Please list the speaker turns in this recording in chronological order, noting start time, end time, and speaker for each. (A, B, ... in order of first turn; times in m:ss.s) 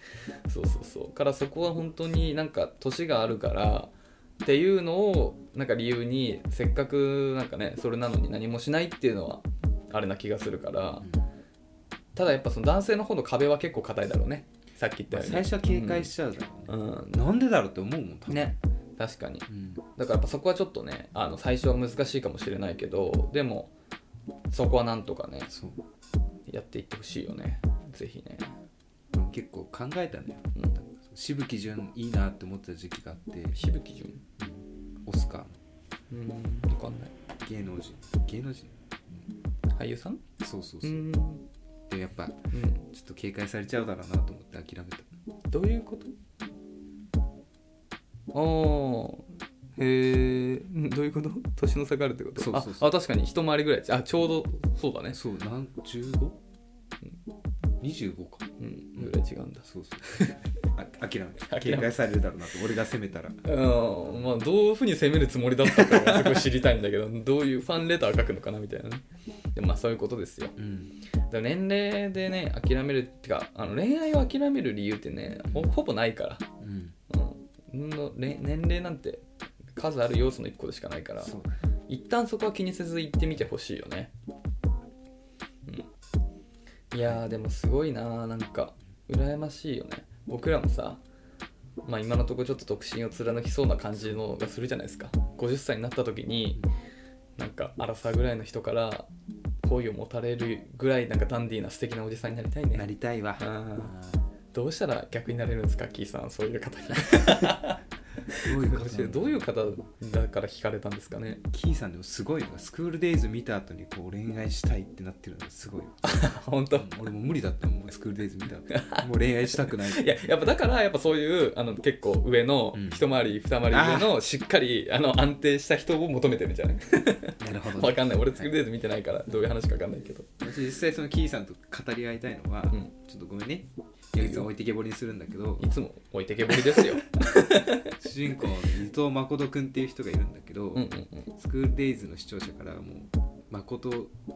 0:00.5-0:03.9 A
0:04.4-0:11.1 A
0:11.0-0:11.3 B
0:12.2-0:16.1 A
0:15.1-0:18.6 B
0:16.7-0:17.2 A
0:18.3-0:23.7 A
0:19.5-0:19.8 B
0:24.5-0:25.5 A
0:25.5-0:25.8 B
0:26.5-0:28.5 A
0:29.1-0:33.6 B
0:33.5-0:34.2 A
0:34.4-0:35.6 B
0:36.1-0:37.1 A
0:37.4-0:39.2 B
0:39.7-0:40.2 A
0:40.4-0:41.0 B
0:40.8-0:41.5 A
0:41.9-0:45.1 B
0:42.5-0:42.9 A
0:45.5-0:46.2 A
0:48.3-0:55.2 A
0:52.4-0:52.9 B
0:55.1-0:56.4 B
0:57.8-0:59.1 B
0:58.6-0:59.6 A
0:59.6-1:03.4 B
1:01.5-1:01.9 A
1:03.4-1:09.0 A
1:05.7-1:06.3 B
1:09.6-1:10.6 A
1:10.6-1:10.9 B
1:11.3-1:16.5 A
1:15.5-1:15.7 B
1:16.6-1:17.0 B
1:17.1-1:19.2 A
1:19.8-1:21.3 A
1:21.2-1:21.6 B
1:21.9-1:24.1 A
1:26.9-1:31.0 A
1:31.8-1:36.6 A
1:37.4-1:39.1 A
1:39.6-1:42.9 A
1:42.7-1:44.2 B
1:43.4-1:43.9 A
1:44.5-1:51.4 A
1:48.3-1:49.5 B
1:51.5-1:56.2 B
1:56.0-1:57.1 A
1:56.7-2:00.1 B
1:58.7-2:10.3 A
2:02.7-2:03.0 B
2:03.7-2:04.1 B
2:07.4-2:08.5 B
2:10.4-2:15.7 B
2:14.2-2:14.5 A
2:15.6-2:17.9 A
2:17.9-2:24.1 B
2:20.8-2:21.3 A